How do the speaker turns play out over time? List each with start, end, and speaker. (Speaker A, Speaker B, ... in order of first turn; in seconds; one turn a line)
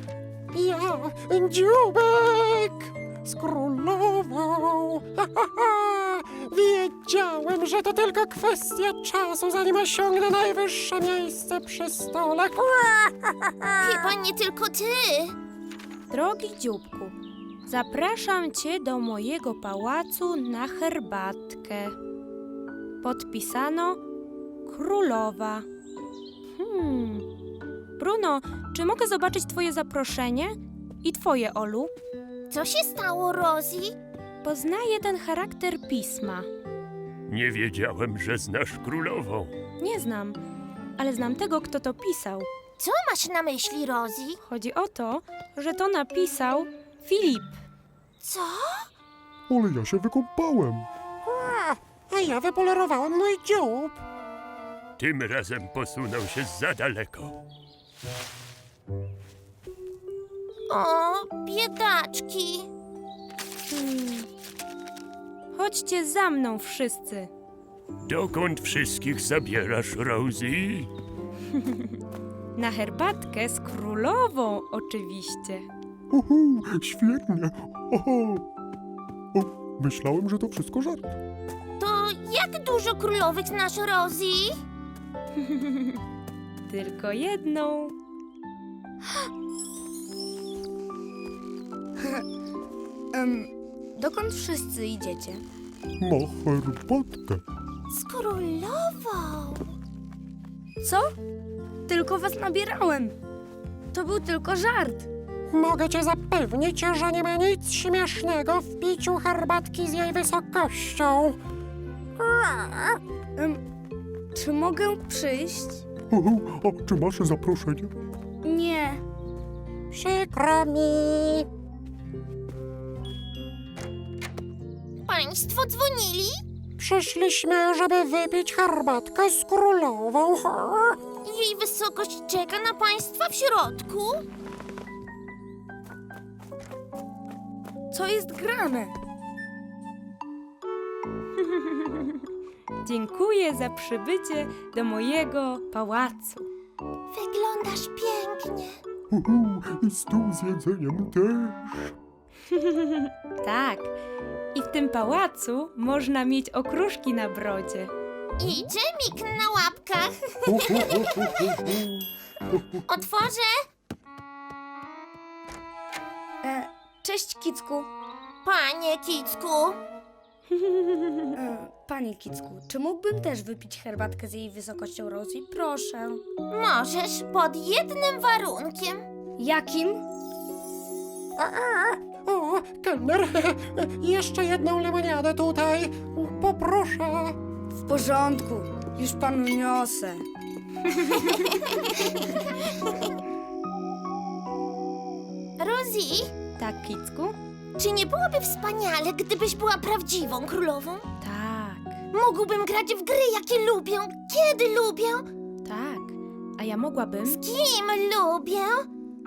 Speaker A: 0.5-14.1
Speaker B: 13.8-15.4
Speaker C: 16.1-17.1
Speaker C: 17.7-21.9
Speaker C: 23.0-24.0
Speaker C: 24.7-25.7
Speaker C: 26.6-27.3
Speaker C: 28.0-31.9
Speaker B: 32.5-34.0
Speaker C: 34.4-36.5
Speaker D: 37.3-39.5
Speaker C: 39.8-40.4
Speaker C: 41.0-42.5
Speaker B: 42.8-44.4
Speaker C: 44.5-47.5
Speaker B: 48.2-48.9
Speaker E: 49.5-50.9
Speaker A: 51.2-54.0
Speaker D: 55.0-57.4
Speaker B: 60.7-62.7
Speaker C: 63.7-64.3
Speaker C: 65.5-67.3
Speaker D: 68.1-70.9
Speaker C: 72.5-75.7
Speaker E: 76.1-78.5
Speaker E: 79.3-81.2
Speaker B: 81.8-84.6
Speaker C: 85.4-86.0
Speaker C: 86.7-87.9
Speaker F: 89.0-89.3
Speaker F: 93.1-95.5
Speaker E: 96.0-97.4
Speaker B: 97.9-99.8
Speaker F: 100.8-101.1
Speaker F: 101.9-103.2
Speaker F: 103.9-105.1
Speaker A: 105.5-111.4
Speaker A: 112.2-113.0
Speaker F: 113.4-113.6
Speaker F: 114.3-115.8
Speaker E: 116.1-117.9
Speaker F: 118.4-119.0
Speaker A: 119.9-121.5
Speaker B: 125.0-126.4
Speaker A: 126.8-131.0
Speaker B: 131.2-134.3
Speaker F: 137.9-138.9
Speaker C: 141.4-142.1
Speaker C: 142.8-146.5
Speaker B: 147.1-148.8
Speaker E: 149.1-151.9
Speaker C: 152.6-153.9
Speaker C: 154.5-157.9
Speaker B: 158.4-161.7
Speaker E: 160.5-162.8
Speaker B: 162.9-163.5
Speaker F: 166.4-167.9
Speaker B: 168.4-169.8
Speaker C: 170.6-171.3
Speaker F: 171.3-176.2
Speaker B: 176.5-179.1
Speaker F: 179.4-180.0
Speaker A: 181.4-187.4
Speaker F: 187.9-190.2
Speaker B: 191.3-191.9
Speaker B: 195.6-196.3
Speaker C: 196.6-197.4
Speaker B: 197.8-201.1
Speaker C: 201.2-202.0
Speaker B: 202.1-205.3
Speaker C: 205.6-207.4
Speaker B: 207.2-208.9